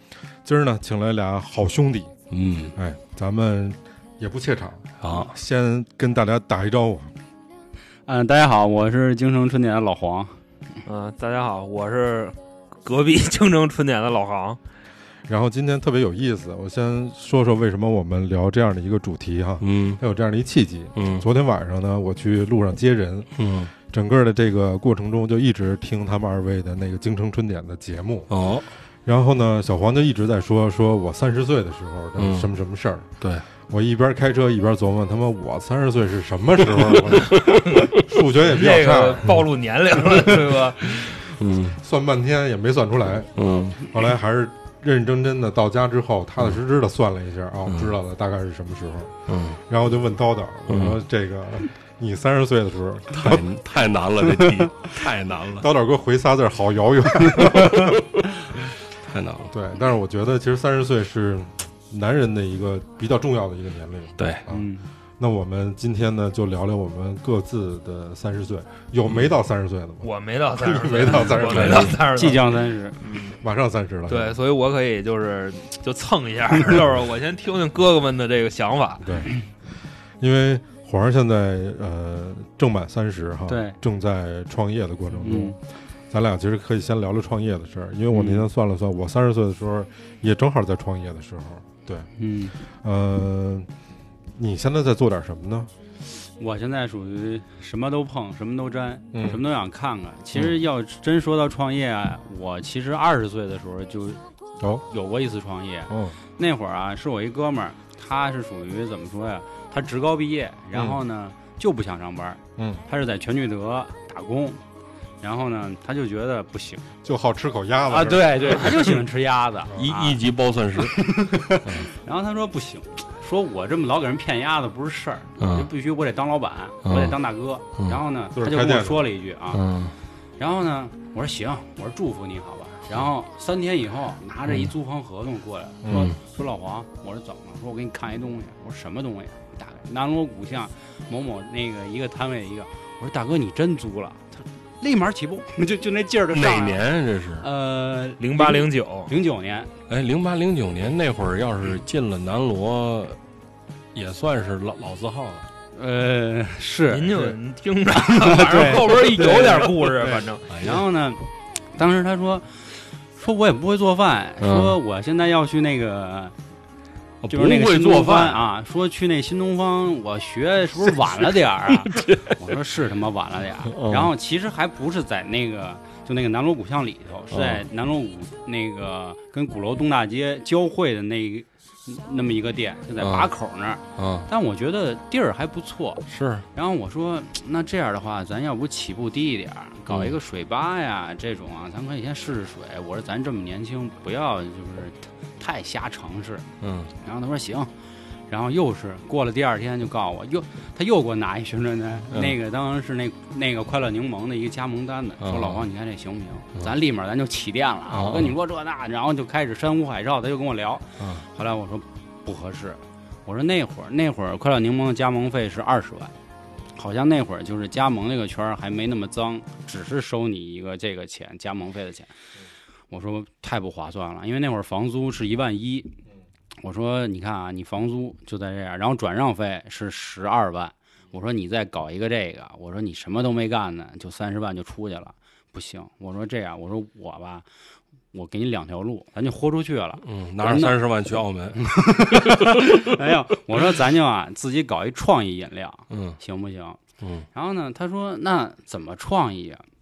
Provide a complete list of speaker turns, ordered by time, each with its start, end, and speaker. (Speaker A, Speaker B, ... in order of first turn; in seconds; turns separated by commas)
Speaker A: 0.4-2.1, Speaker B: 2.3-2.7, Speaker A: 2.7-7.1, Speaker B: 5.0-5.3, Speaker C: 8.1-10.3, Speaker D: 10.8-14.6, Speaker A: 15.3-28.3, Speaker B: 19.6-20.0, Speaker B: 20.9-21.3, Speaker B: 23.4-23.7, Speaker B: 28.3-28.7, Speaker A: 29.0-33.1, Speaker B: 32.2-32.5, Speaker A: 33.6-39.4, Speaker B: 36.7-37.8, Speaker D: 37.5-41.3, Speaker B: 41.3-41.8, Speaker A: 41.8-53.5, Speaker B: 43.4-43.8, Speaker B: 47.7-47.9, Speaker B: 49.3-49.6, Speaker B: 50.7-51.0, Speaker B: 53.1-55.7, Speaker A: 55.6-58.0, Speaker B: 57.4-58.0, Speaker B: 59.0-59.5, Speaker A: 59.5-64.7, Speaker B: 64.2-64.5, Speaker C: 64.5-64.9, Speaker A: 65.2-72.0, Speaker B: 69.1-69.3, Speaker D: 70.0-72.5, Speaker C: 71.1-73.0, Speaker B: 71.5-71.9, Speaker D: 73.0-73.4, Speaker A: 73.3-74.4, Speaker D: 74.1-79.1, Speaker A: 79.0-79.3, Speaker A: 80.2-85.6, Speaker C: 83.5-83.8, Speaker C: 85.2-85.6, Speaker A: 86.1-92.1, Speaker C: 88.1-88.5, Speaker C: 92.2-92.6, Speaker A: 92.7-93.7, Speaker A: 94.3-95.7, Speaker C: 96.4-104.2, Speaker A: 99.1-99.4, Speaker C: 104.8-114.6, Speaker A: 105.9-106.2, Speaker A: 110.7-111.0, Speaker A: 112.6-112.8, Speaker C: 115.2-116.9, Speaker A: 117.0-118.6, Speaker C: 117.9-120.2, Speaker B: 119.8-121.1, Speaker C: 120.8-129.7, Speaker B: 121.6-121.9, Speaker B: 125.4-125.7, Speaker B: 126.8-127.2, Speaker A: 128.3-129.1, Speaker B: 129.5-129.9, Speaker C: 130.4-149.7, Speaker A: 135.8-136.1, Speaker B: 135.9-136.2, Speaker B: 146.3-147.5, Speaker D: 148.2-149.1, Speaker B: 149.9-153.2, Speaker B: 153.9-155.5, Speaker C: 155.7-157.4, Speaker D: 156.9-160.5, Speaker C: 157.9-166.3, Speaker B: 160.5-160.8, Speaker B: 164.4-164.8, Speaker B: 167.2-168.4, Speaker C: 167.3-196.4, Speaker B: 171.8-172.4, Speaker B: 173.6-174.1, Speaker B: 177.3-177.7, Speaker B: 183.0-183.3, Speaker B: 183.9-184.3, Speaker B: 186.1-186.5, Speaker B: 189.9-190.2, Speaker B: 196.6-196.9, Speaker C: 197.0-197.7, Speaker C: 198.3-216.1, Speaker B: 202.1-202.3, Speaker B: 205.2-205.6, Speaker B: 207.9-208.3, Speaker B: 211.0-211.2, Speaker C: 216.8-222.1, Speaker C: 222.9-226.0, Speaker C: 226.6-237.4, Speaker C: 238.1-240.8, Speaker B: 240.0-242.8, Speaker C: 241.6-246.8, Speaker B: 245.9-246.2, Speaker B: 247.0-247.3, Speaker C: 247.3-249.6